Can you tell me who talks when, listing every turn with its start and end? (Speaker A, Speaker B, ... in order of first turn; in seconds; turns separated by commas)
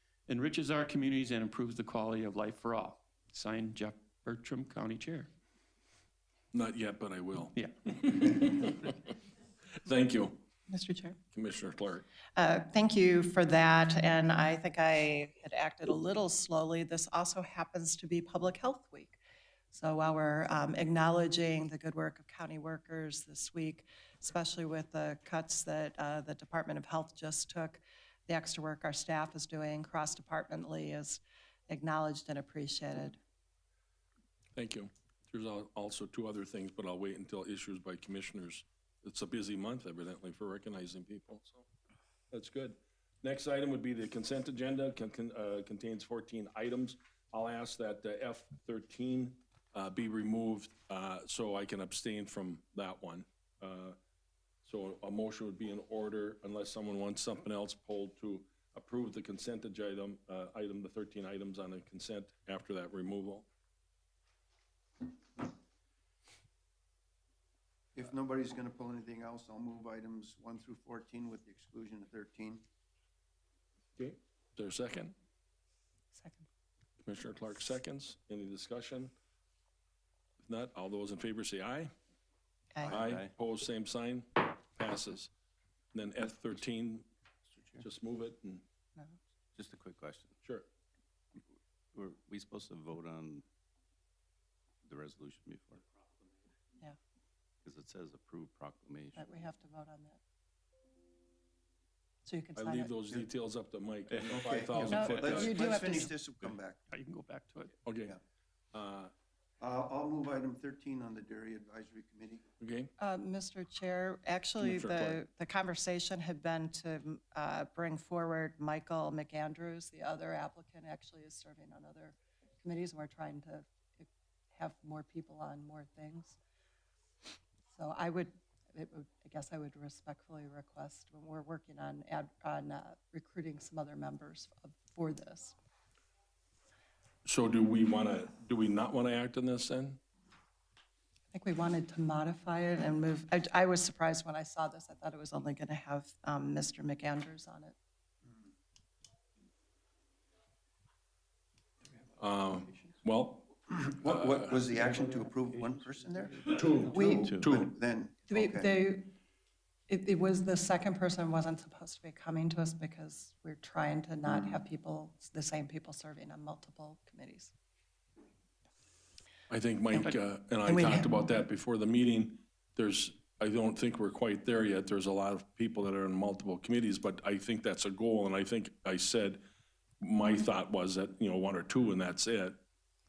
Speaker A: 0.3-5.3, Speaker B: 6.5-8.9, Speaker B: 9.8-10.4, Speaker C: 10.7-11.2, Speaker B: 11.3-12.1, Speaker C: 12.4-19.2, Speaker C: 19.7-33.2, Speaker B: 34.5-41.7, Speaker B: 42.3-54.0, Speaker B: 54.6-63.5, Speaker D: 68.0-72.6, Speaker B: 74.0-75.1, Speaker C: 76.1-76.5, Speaker B: 77.0-79.1, Speaker B: 80.4-81.9, Speaker B: 82.9-85.3, Speaker E: 82.9-83.3, Speaker B: 85.9-87.1, Speaker B: 87.8-88.6, Speaker E: 89.6-90.3, Speaker E: 91.9-93.5, Speaker E: 94.8-95.8, Speaker E: 97.7-99.4, Speaker C: 99.2-100.2, Speaker C: 102.2-102.9, Speaker B: 102.6-105.6, Speaker D: 104.3-106.8, Speaker A: 104.7-105.1, Speaker C: 104.8-106.1, Speaker A: 105.8-107.8, Speaker B: 107.8-108.2, Speaker B: 108.7-109.1, Speaker D: 109.6-112.4, Speaker B: 112.6-112.9, Speaker C: 113.0-126.4, Speaker B: 114.6-115.2, Speaker C: 127.7-135.6, Speaker B: 137.2-140.0, Speaker C: 141.3-147.8, Speaker B: 152.2-154.6, Speaker D: 153.7-158.7, Speaker B: 156.5-157.7, Speaker C: 156.9-157.3, Speaker C: 158.3-159.1, Speaker C: 159.9-167.5, Speaker B: 169.5-179.4, Speaker C: 169.9-171.1, Speaker B: 180.0-182.6